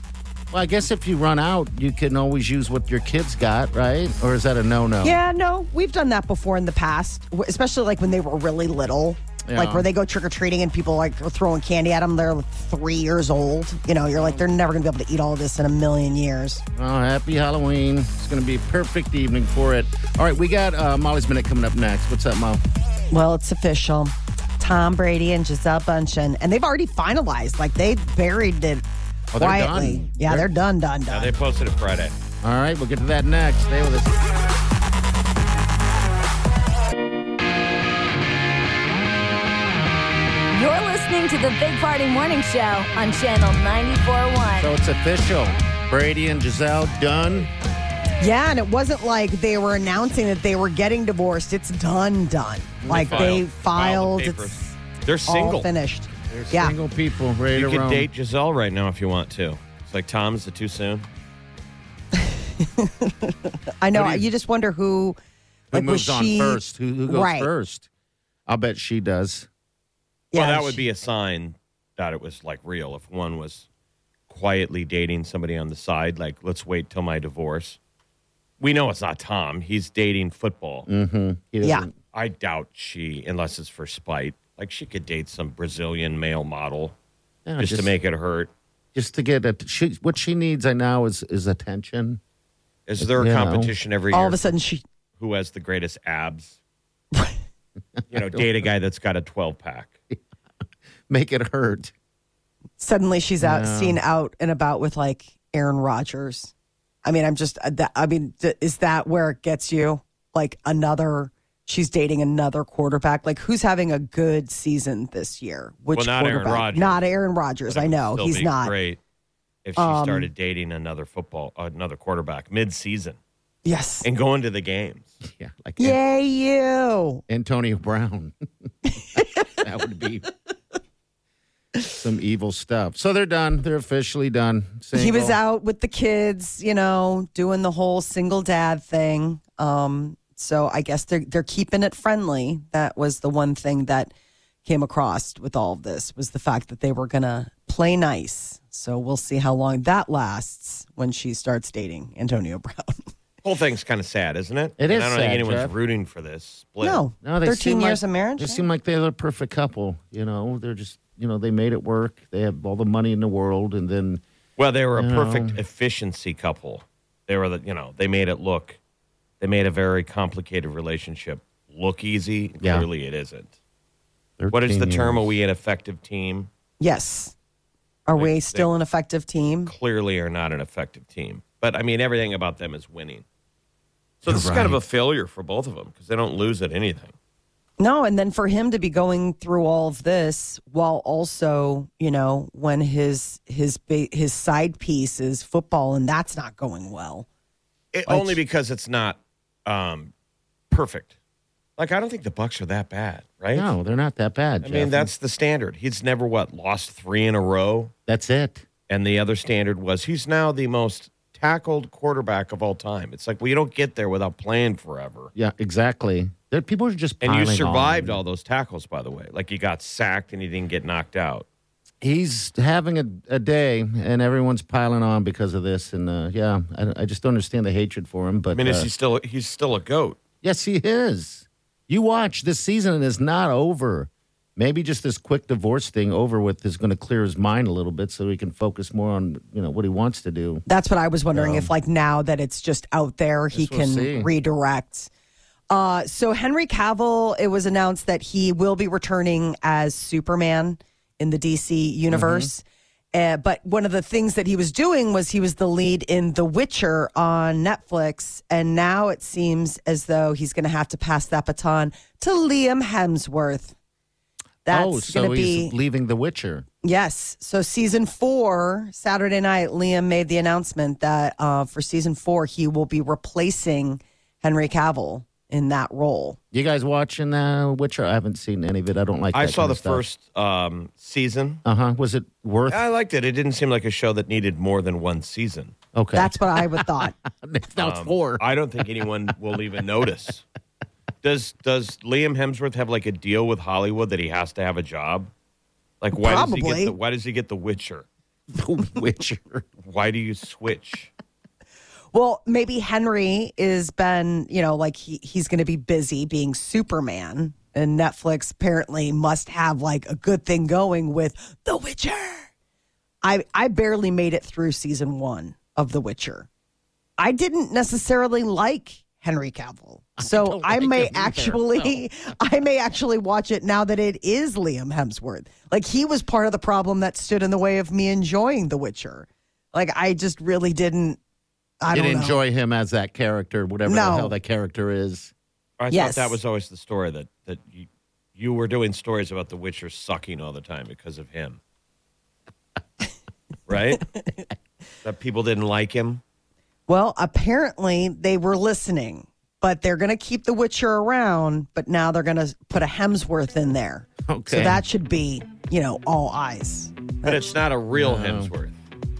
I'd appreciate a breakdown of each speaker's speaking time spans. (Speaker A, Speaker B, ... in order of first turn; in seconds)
Speaker A: 0.5-5.2, 9.5-9.9, 16.8-22.6, 29.3-30.5, 32.4-34.2, 44.6-47.5, 52.8-53.4, 56.3-58.1, 63.9-64.3, 65.7-67.9, 68.5-69.5, 80.9-81.9, 87.5-87.9, 89.0-92.2, 93.0-93.7, 98.0-98.4, 101.1-101.9, 103.4-104.0, 125.2-126.0, 127.3-128.4, 129.4-130.3, 131.9-135.4, 154.8-155.7, 157.2-164.2, 165.0-165.6, 172.6-172.9, 174.4-175.3, 184.2-184.8, 203.5-205.1, 208.1-208.6, 215.3-218.2, 222.0-228.9, 230.4-240.6, 241.3-241.7, 243.5-244.3, 252.1-252.5, 264.7-266.7, 276.5-280.0, 281.6-282.8, 285.9-288.4, 298.5-299.7, 320.2-322.1, 331.9-335.3, 354.3-354.8, 357.9-358.5
Speaker B: 5.0-16.6, 23.1-28.9, 29.4-31.3, 48.2-54.8, 55.3-56.8, 62.1-65.2, 65.7-67.5, 70.3-70.8, 94.1-94.8, 102.8-106.5, 107.0-118.7, 119.8-120.3, 123.7-124.1, 125.8-127.2, 134.9-144.1, 144.7-153.1, 156.8-158.7, 176.8-177.3, 178.1-179.7, 187.8-197.3, 198.1-198.4, 240.7-245.1, 245.7-263.8, 264.6-265.7, 266.8-276.4, 286.1-287.1, 296.1-296.9, 302.1-312.5, 313.2-316.5, 317.2-331.2, 331.8-332.4, 333.9-334.4, 335.9-336.4, 346.9-357.6
Speaker C: 31.1-32.1, 52.9-55.7, 57.5-61.1, 70.3-73.7, 74.3-77.8, 78.6-80.9, 82.1-87.0, 87.6-88.5, 92.9-94.5, 95.2-96.6, 98.1-99.9, 115.9-117.0, 117.7-119.0, 119.7-123.2, 124.0-125.1, 153.4-157.0, 164.6-168.8, 169.4-173.5, 174.5-176.5, 178.2-178.7, 179.7-183.2, 184.2-187.1, 197.9-200.1, 200.7-201.1, 201.8-203.7, 204.6-207.9, 208.9-215.3, 217.2-221.5, 228.5-230.2, 279.3-281.6, 282.7-285.7, 287.8-290.4, 291.2-295.3, 296.0-298.1, 299.8-301.1, 335.8-341.6, 343.7-344.1, 345.0-346.2, 357.2-358.8
Speaker D: 40.5-44.7